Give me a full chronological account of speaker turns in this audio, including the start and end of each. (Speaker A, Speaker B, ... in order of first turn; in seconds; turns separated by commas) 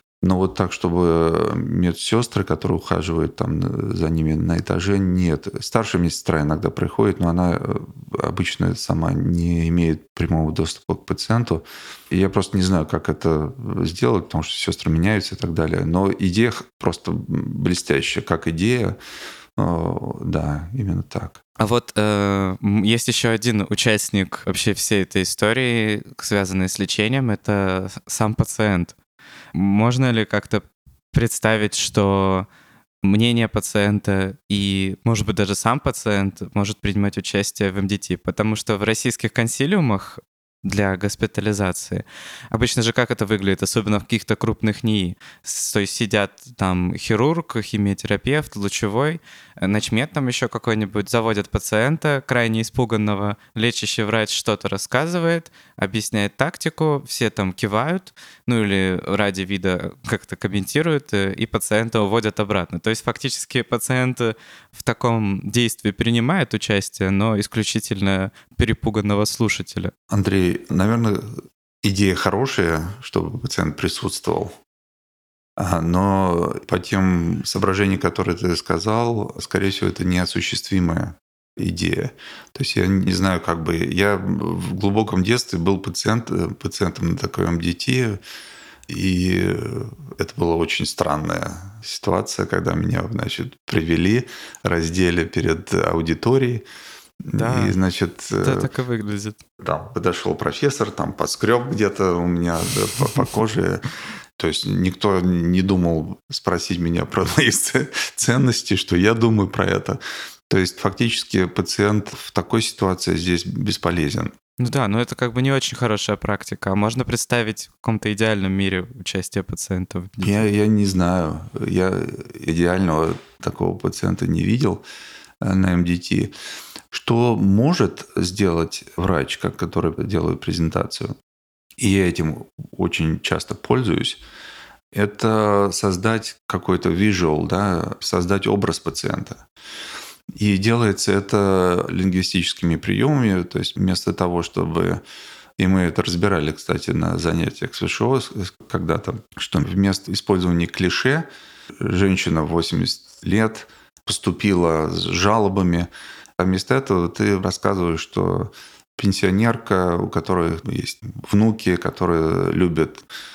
Speaker A: 0.2-19.0, Speaker A: 19.6-21.4, Speaker B: 21.6-28.9, Speaker B: 29.5-32.5, Speaker B: 33.0-69.9, Speaker A: 70.1-74.5, Speaker A: 75.6-88.2, Speaker A: 88.9-96.6, Speaker A: 97.2-98.7, Speaker B: 97.3-97.8, Speaker B: 98.4-99.4, Speaker A: 99.6-103.8, Speaker A: 104.4-114.3, Speaker B: 114.6-120.5, Speaker A: 120.2-124.8, Speaker A: 125.4-126.3, Speaker A: 126.9-131.1, Speaker A: 131.8-134.2, Speaker A: 134.9-139.4, Speaker A: 140.3-145.0, Speaker A: 145.6-151.3, Speaker A: 151.8-163.1